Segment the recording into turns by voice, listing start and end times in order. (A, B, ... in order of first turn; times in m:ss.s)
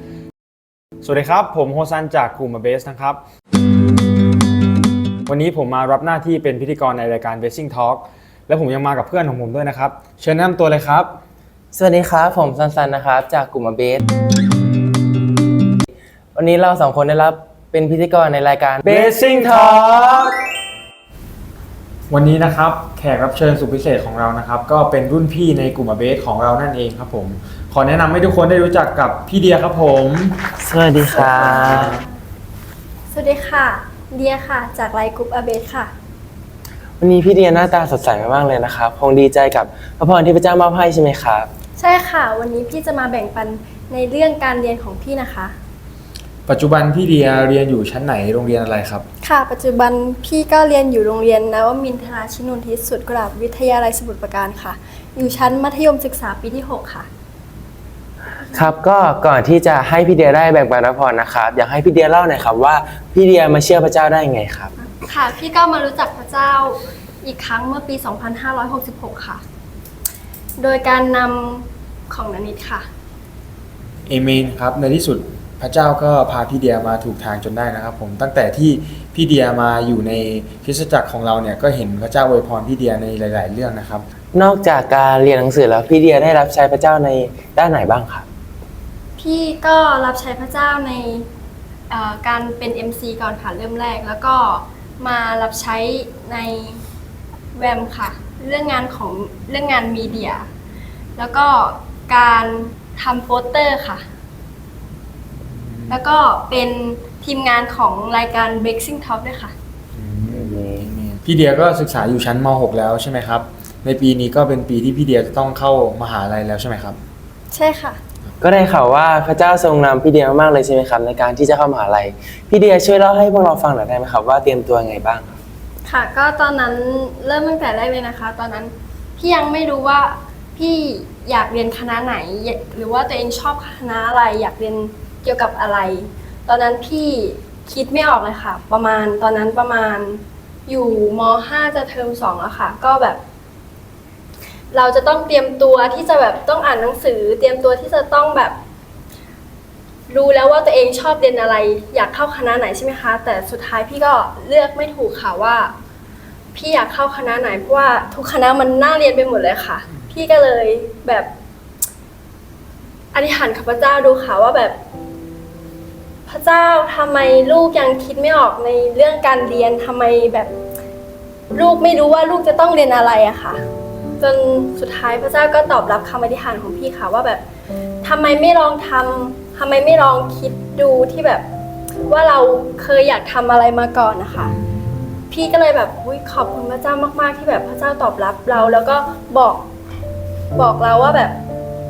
0:01.0-0:03.2 A
0:05.2-0:11.1 A
0:11.7-0:14.0 B
0:16.3-0:20.3 B
0:18.8-0:20.3 A
0:22.1-0:30.4 A
0:30.6-0:32.0 B
0:31.2-0:32.0 A
0:31.4-0:31.8 C
0:33.1-0:35.9 C
0:37.0-0:41.5 B
0:41.8-0:45.6 C
0:46.5-0:49.0 A
0:49.2-0:57.1 C
0:58.5-1:04.7 B
1:04.8-1:09.4 C
1:10.6-1:12.9 C
1:14.1-1:24.0 A
1:24.3-1:28.2 B
1:29.2-1:31.3 C
1:31.9-1:36.8 C
1:37.6-1:40.5 C
1:41.2-1:44.0 C
1:45.5-1:46.0 A
1:45.9-1:49.5 C
1:50.0-1:57.0 A
1:50.3-1:50.9 B
1:57.5-1:58.0 C
1:58.4-2:05.4 B
2:05.8-2:23.2 C
2:24.7-2:28.6 C
2:30.1-2:35.7 C
2:36.5-2:41.3 C
2:43.1-2:44.8 C
2:46.3-2:50.5 C
2:51.5-2:53.6 C
2:54.2-2:57.4 C
2:58.0-3:01.4 C
3:02.1-3:04.5 C
3:04.5-3:05.0 A
3:05.3-3:09.6 C
3:10.6-3:11.4 C